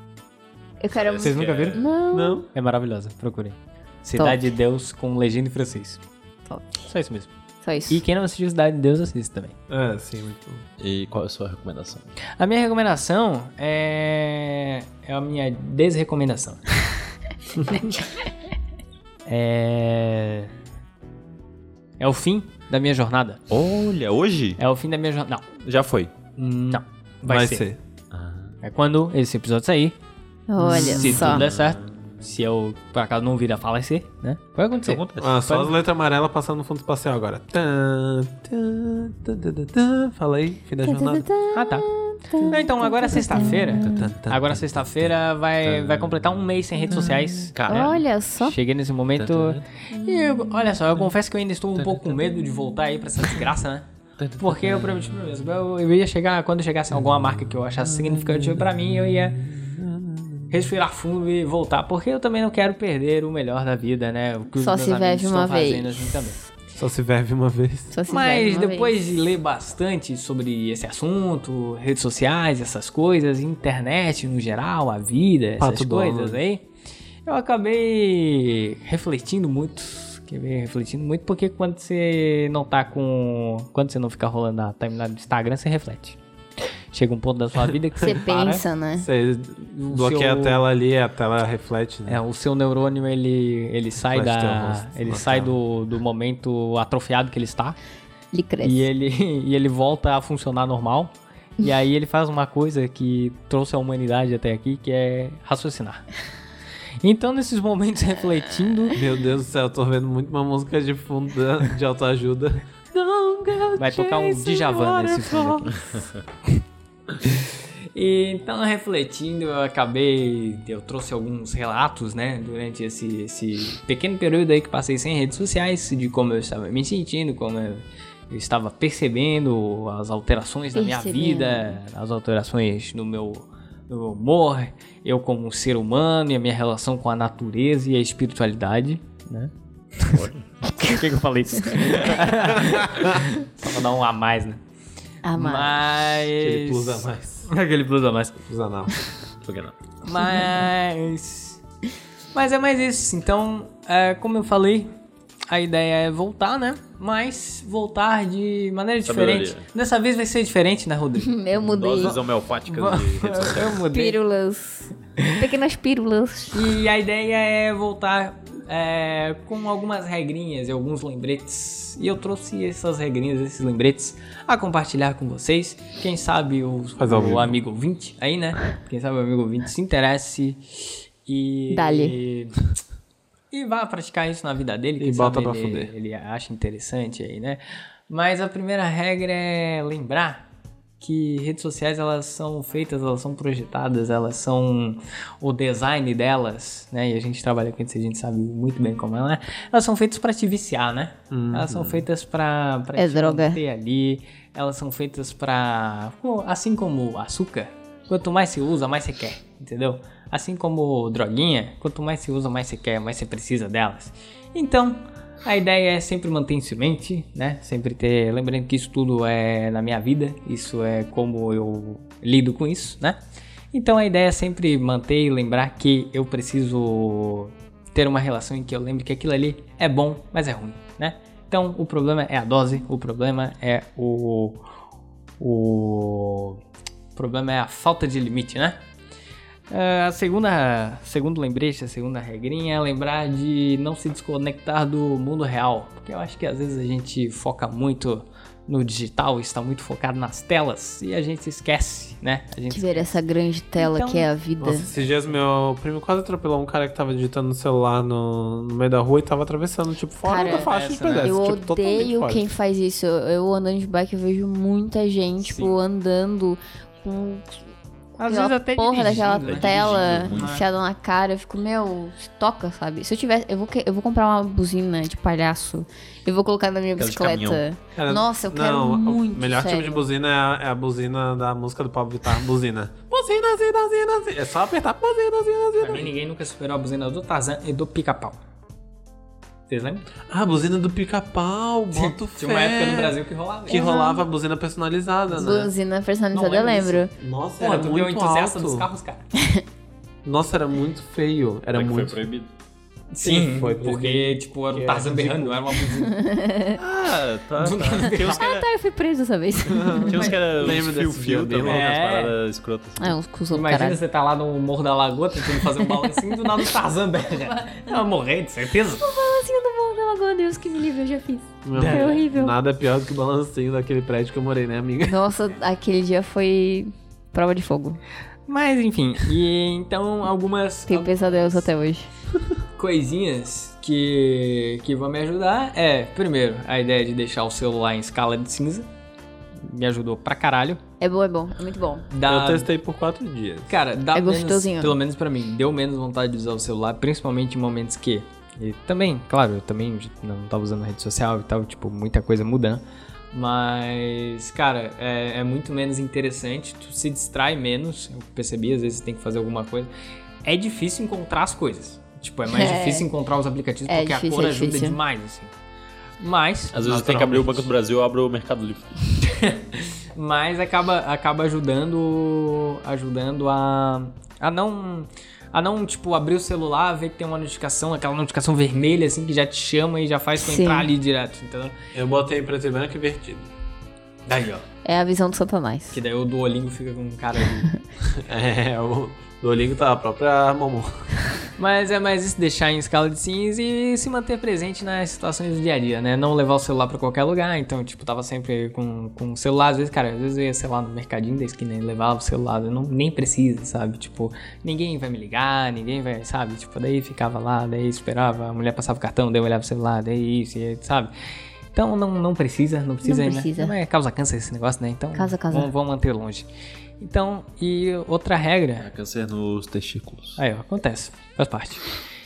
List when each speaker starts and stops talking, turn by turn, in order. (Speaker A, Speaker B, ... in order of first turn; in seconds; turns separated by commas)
Speaker A: 0.8-2.5, Speaker B: 0.9-1.9, Speaker C: 1.2-1.9, Speaker D: 2.1-2.5, Speaker C: 2.5-6.0, Speaker A: 4.2-4.4, Speaker A: 6.5-6.9, Speaker C: 6.8-7.3, Speaker A: 7.6-8.0, Speaker C: 7.9-9.6, Speaker D: 9.7-10.6, Speaker B: 10.8-12.1, Speaker C: 12.4-16.6, Speaker C: 19.2-20.5, Speaker C: 22.0-23.4, Speaker B: 23.5-24.6, Speaker C: 24.6-25.4, Speaker B: 25.6-26.1, Speaker C: 26.4-27.7, Speaker D: 27.2-27.8, Speaker B: 28.1-28.6, Speaker C: 28.6-29.9, Speaker A: 30.5-31.5, Speaker C: 30.6-35.7, Speaker D: 30.6-31.2, Speaker B: 30.9-32.2, Speaker B: 34.8-35.6, Speaker D: 35.2-41.3, Speaker A: 40.8-44.1, Speaker C: 41.5-59.4, Speaker D: 43.7-44.3, Speaker B: 44.3-48.0, Speaker A: 47.7-48.5, Speaker B: 49.1-49.6, Speaker B: 51.8-52.4, Speaker B: 54.2-55.1, Speaker D: 58.4-60.2, Speaker C: 60.5-66.4, Speaker A: 64.5-66.3, Speaker D: 66.7-68.0, Speaker A: 67.9-69.0, Speaker C: 68.1-76.7, Speaker D: 75.6-76.4, Speaker C: 77.2-86.2, Speaker C: 86.9-88.6, Speaker A: 88.0-89.1, Speaker D: 89.0-92.2, Speaker C: 89.8-90.6, Speaker C: 92.1-97.8, Speaker D: 94.0-95.5, Speaker A: 98.3-98.9, Speaker C: 98.6-106.1, Speaker C: 107.0-109.0, Speaker D: 108.9-115.7, Speaker C: 113.8-115.7, Speaker B: 115.8-116.1, Speaker C: 117.2-144.6, Speaker A: 130.7-131.8, Speaker B: 140.1-140.5, Speaker A: 141.6-141.9, Speaker D: 142.5-143.2, Speaker A: 145.2-145.8, Speaker C: 145.3-148.4, Speaker D: 146.4-147.5, Speaker D: 148.4-148.9, Speaker B: 149.4-149.8, Speaker C: 150.0-151.6, Speaker A: 150.2-150.6, Speaker C: 152.3-154.9, Speaker C: 155.5-161.3, Speaker B: 159.0-159.7, Speaker A: 161.2-162.2, Speaker B: 161.6-163.8, Speaker C: 162.7-164.2, Speaker A: 163.9-166.8, Speaker C: 165.2-165.4, Speaker C: 166.5-182.7, Speaker D: 177.0-177.6, Speaker A: 181.7-182.2, Speaker C: 183.5-190.5, Speaker D: 185.0-185.9, Speaker C: 191.0-223.2, Speaker D: 201.3-202.1, Speaker A: 202.9-203.6, Speaker C: 223.7-234.6, Speaker C: 235.4-236.6, Speaker C: 237.1-238.8, Speaker C: 239.7-253.2, Speaker A: 252.7-254.9, Speaker C: 253.8-254.3, Speaker D: 254.6-262.4, Speaker C: 254.9-255.4, Speaker A: 260.2-267.6, Speaker C: 260.4-261.3, Speaker C: 265.4-265.7, Speaker A: 268.1-280.1, Speaker C: 268.2-270.6, Speaker B: 269.1-270.6, Speaker B: 277.0-277.6, Speaker D: 277.9-286.1, Speaker C: 285.8-288.4, Speaker C: 289.7-290.1, Speaker D: 290.2-295.7, Speaker C: 291.9-293.9, Speaker A: 293.7-294.3, Speaker C: 295.3-295.7, Speaker A: 295.4-297.1, Speaker C: 296.3-297.1, Speaker D: 297.2-298.9, Speaker C: 297.6-299.3, Speaker A: 299.4-299.6, Speaker D: 300.2-302.2, Speaker B: 301.7-302.5, Speaker C: 303.1-306.1, Speaker D: 303.2-305.7, Speaker A: 306.1-306.8, Speaker B: 306.8-308.7, Speaker C: 307.6-308.4, Speaker A: 308.1-310.3, Speaker D: 309.6-311.9, Speaker B: 310.1-313.2, Speaker C: 311.6-312.4, Speaker A: 313.0-314.0, Speaker C: 313.5-319.1, Speaker A: 315.5-316.6, Speaker A: 319.0-322.6, Speaker D: 321.6-325.2, Speaker C: 321.7-322.2, Speaker A: 325.0-328.0, Speaker C: 328.5-331.7, Speaker A: 330.9-332.1, Speaker C: 332.8-338.9, Speaker C: 339.6-340.8, Speaker A: 341.0-342.1, Speaker C: 342.1-342.7, Speaker D: 342.2-343.7, Speaker C: 343.7-359.9, Speaker A: 344.1-345.0, Speaker C: 360.4-365.5, Speaker A: 362.5-363.1, Speaker A: 363.9-365.0, Speaker C: 366.2-367.3, Speaker B: 366.7-368.9, Speaker D: 366.9-367.5, Speaker C: 369.2-381.8, Speaker A: 380.4-380.9, Speaker D: 381.9-383.5, Speaker C: 384.3-384.6, Speaker A: 384.8-386.0, Speaker C: 385.9-387.7, Speaker D: 388.1-391.1, Speaker C: 391.6-411.1, Speaker C: 411.7-416.5, Speaker A: 413.0-413.7, Speaker A: 415.1-415.7, Speaker C: 417.0-418.9, Speaker B: 418.8-420.4, Speaker C: 420.4-421.9